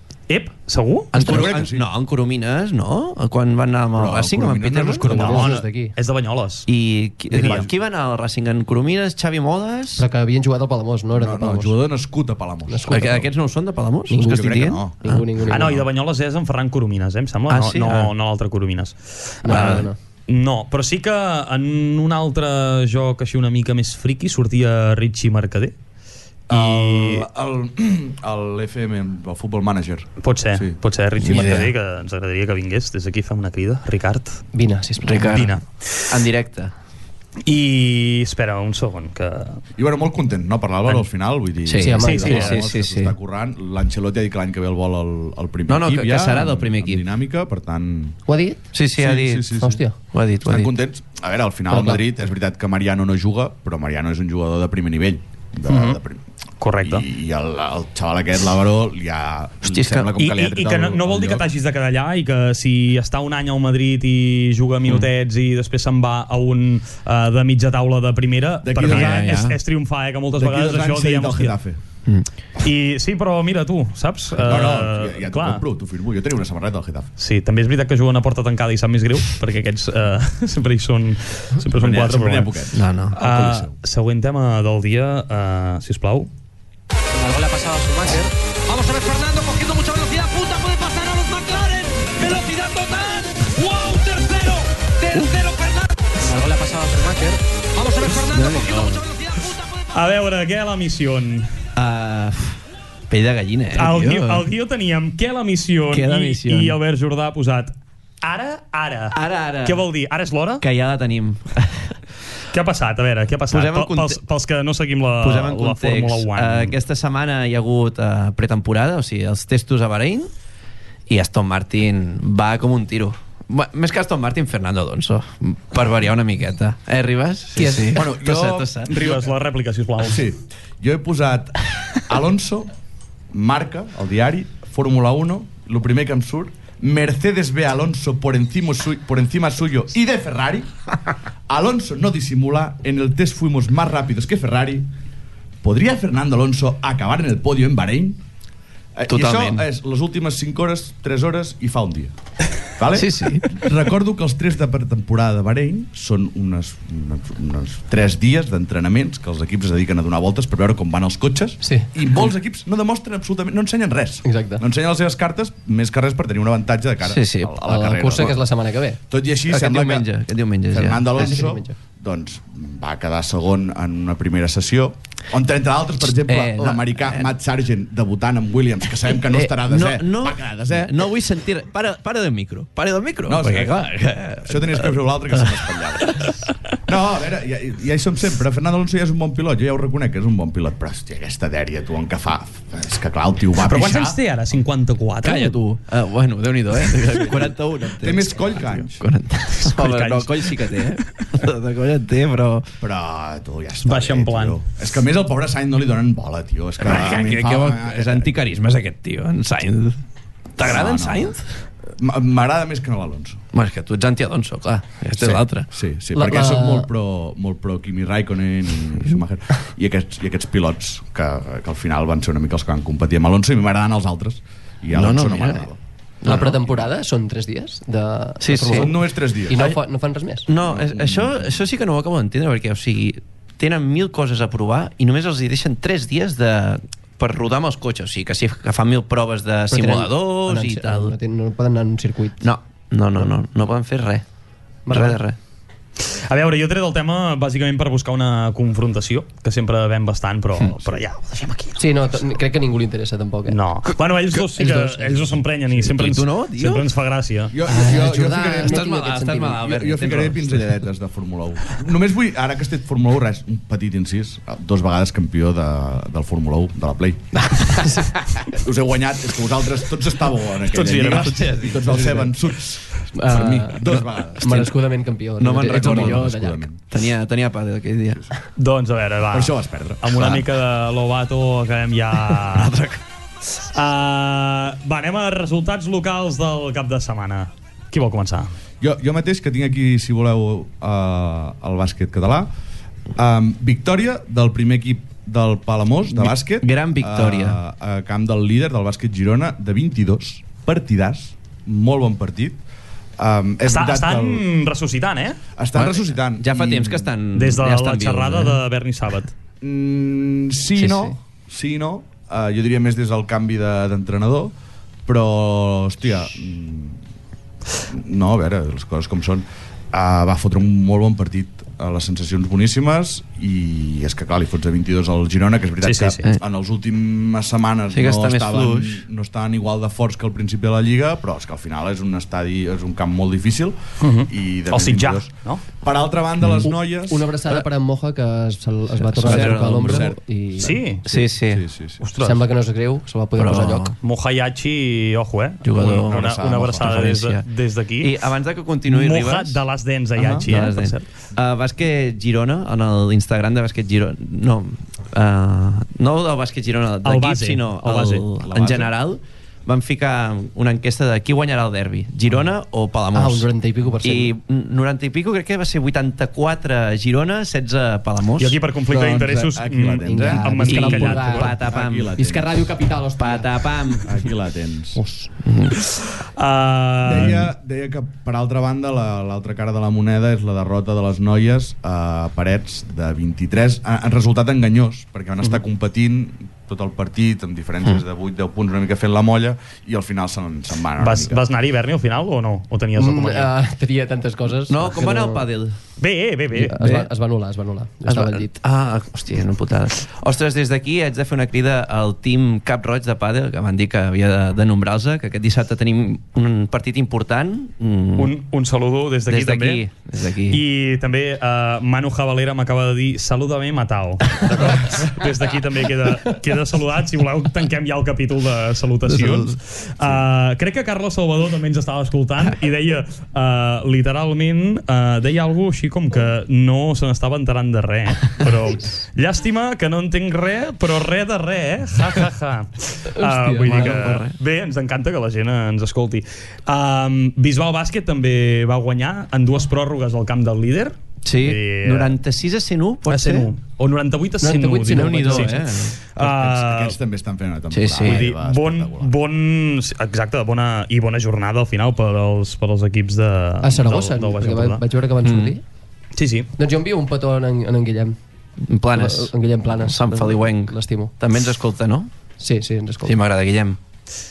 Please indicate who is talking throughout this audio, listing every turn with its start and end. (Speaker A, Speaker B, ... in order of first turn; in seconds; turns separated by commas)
Speaker A: 0.3-1.6, Speaker B: 1.1-5.4, Speaker C: 1.1-1.9, Speaker C: 3.9-5.5, Speaker D: 5.0-5.9, Speaker A: 5.1-6.7, Speaker B: 6.7-10.0, Speaker C: 7.3-7.7, Speaker A: 7.3-7.6, Speaker D: 10.0-11.8, Speaker C: 11.1-13.3, Speaker D: 12.7-13.0, Speaker B: 12.9-15.2, Speaker D: 14.1-15.8, Speaker C: 14.1-15.8, Speaker A: 15.5-25.7, Speaker B: 17.5-18.1, Speaker D: 19.4-20.0, Speaker B: 19.5-19.9, Speaker A: 26.5-27.2, Speaker C: 26.5-30.8, Speaker A: 30.2-34.4, Speaker B: 31.2-31.7, Speaker D: 34.5-35.4, Speaker B: 35.0-35.5, Speaker A: 35.1-36.2, Speaker B: 36.1-36.7, Speaker A: 37.5-39.6, Speaker C: 39.8-48.2, Speaker B: 41.6-43.1, Speaker D: 41.8-42.5, Speaker A: 41.9-42.6, Speaker B: 45.7-47.0, Speaker D: 48.3-48.7, Speaker B: 48.7-50.7, Speaker C: 48.9-49.8, Speaker D: 49.6-49.9, Speaker C: 50.4-56.2, Speaker D: 51.7-52.0, Speaker A: 55.7-56.0, Speaker A: 56.6-57.0, Speaker C: 56.8-61.5, Speaker B: 59.6-60.1, Speaker A: 60.2-71.5, Speaker C: 68.6-69.5, Speaker B: 68.8-69.5, Speaker C: 70.3-71.8, Speaker A: 72.6-75.6, Speaker C: 74.4-77.1, Speaker A: 77.2-86.3, Speaker C: 81.7-83.7, Speaker B: 82.7-83.2, Speaker E: 87.2-99.9, Speaker B: 98.2-99.0, Speaker A: 99.9-101.5, Speaker B: 101.8-102.6, Speaker B: 103.1-104.4, Speaker A: 103.7-110.6, Speaker B: 105.9-106.8, Speaker B: 109.1-109.8, Speaker B: 110.6-112.0, Speaker A: 112.5-116.8, Speaker B: 113.5-114.2, Speaker B: 115.2-120.3, Speaker B: 121.1-128.9, Speaker D: 127.5-128.0, Speaker C: 127.9-129.2, Speaker A: 128.9-130.3, Speaker C: 130.0-132.7, Speaker C: 133.3-140.7, Speaker C: 141.5-144.9, Speaker C: 145.6-148.2, Speaker C: 148.9-152.1, Speaker B: 149.1-149.6, Speaker C: 152.7-168.4, Speaker B: 152.9-153.6, Speaker D: 161.6-161.9, Speaker D: 164.2-164.6, Speaker B: 167.0-167.6, Speaker D: 167.6-169.0, Speaker C: 169.1-170.1, Speaker B: 169.5-171.2, Speaker C: 170.7-181.1, Speaker D: 171.2-171.7, Speaker B: 176.2-177.3, Speaker B: 179.2-186.3, Speaker C: 183.3-183.8, Speaker C: 184.4-186.3, Speaker C: 186.8-194.2, Speaker A: 193.6-195.6, Speaker B: 195.2-202.7, Speaker C: 197.3-199.0, Speaker A: 199.6-201.2, Speaker C: 202.8-208.4, Speaker A: 203.8-204.6, Speaker B: 206.8-210.0, Speaker B: 210.6-211.4, Speaker C: 210.6-213.4, Speaker B: 213.5-215.7, Speaker C: 215.2-225.8, Speaker D: 216.1-216.9, Speaker B: 224.9-225.7, Speaker B: 226.2-226.6, Speaker D: 226.2-230.5, Speaker C: 226.4-226.8, Speaker B: 228.4-229.8, Speaker C: 228.5-229.7, Speaker B: 230.5-241.1, Speaker C: 230.6-231.7, Speaker D: 239.7-242.4, Speaker B: 242.4-244.2, Speaker D: 244.8-245.2, Speaker B: 244.9-245.4, Speaker A: 246.0-251.8, Speaker D: 251.8-253.6, Speaker A: 253.5-257.5, Speaker B: 253.9-256.8, Speaker C: 257.5-258.9, Speaker D: 257.6-259.6, Speaker B: 258.5-260.7, Speaker C: 259.5-267.5, Speaker D: 267.4-268.1, Speaker C: 268.5-274.7, Speaker A: 270.7-271.5, Speaker B: 270.8-272.3, Speaker D: 273.1-276.6, Speaker B: 275.4-276.3, Speaker C: 275.7-276.8, Speaker B: 276.9-278.2, Speaker A: 278.6-282.7, Speaker C: 279.3-280.4, Speaker B: 282.3-283.0, Speaker A: 283.6-288.5, Speaker C: 288.8-292.5, Speaker C: 293.1-302.6, Speaker B: 296.2-297.6, Speaker C: 303.2-304.4, Speaker A: 303.7-305.4, Speaker C: 305.6-307.1, Speaker B: 305.7-308.6, Speaker A: 307.3-309.3, Speaker C: 309.6-314.5, Speaker B: 310.8-311.1, Speaker C: 315.1-317.0, Speaker C: 317.9-337.3, Speaker A: 325.8-326.2, Speaker B: 327.9-329.0, Speaker A: 334.0-335.6, Speaker B: 336.4-336.7, Speaker D: 336.6-340.7, Speaker B: 339.1-340.1, Speaker C: 339.2-342.0, Speaker A: 340.6-341.0, Speaker B: 341.1-341.6, Speaker A: 342.0-342.4, Speaker D: 342.2-343.9, Speaker B: 343.4-343.9, Speaker A: 344.0-348.2, Speaker B: 345.6-347.4, Speaker B: 348.0-349.6, Speaker A: 348.9-351.1, Speaker C: 350.1-350.5, Speaker B: 350.3-363.5, Speaker A: 357.0-358.2, Speaker C: 358.4-358.9, Speaker D: 363.1-364.3, Speaker B: 364.0-368.6, Speaker A: 368.4-371.5, Speaker C: 368.9-372.6, Speaker D: 370.1-371.5, Speaker B: 370.6-372.1, Speaker D: 372.1-373.7, Speaker B: 373.2-374.2, Speaker C: 374.0-375.0, Speaker D: 375.0-375.3, Speaker B: 375.4-375.8, Speaker A: 375.8-377.5, Speaker C: 377.0-391.4, Speaker A: 391.0-393.5, Speaker D: 393.0-395.5, Speaker B: 394.7-395.8, Speaker A: 396.0-396.9, Speaker B: 396.5-397.1, Speaker D: 396.6-398.5, Speaker B: 398.1-408.3, Speaker A: 408.2-409.8, Speaker B: 409.3-410.6, Speaker A: 410.5-442.2, Speaker B: 419.1-419.5, Speaker D: 433.1-434.0, Speaker B: 433.6-434.3, Speaker B: 441.2-443.5, Speaker A: 443.1-447.0, Speaker D: 444.4-445.5, Speaker B: 444.9-446.0, Speaker C: 446.2-449.1, Speaker B: 447.7-448.2, Speaker A: 448.0-454.8, Speaker D: 453.6-455.6, Speaker B: 455.2-455.5, Speaker A: 456.1-456.5, Speaker D: 456.6-458.1, Speaker B: 458.6-462.1, Speaker D: 458.9-461.1, Speaker D: 462.4-463.2, Speaker B: 463.0-463.8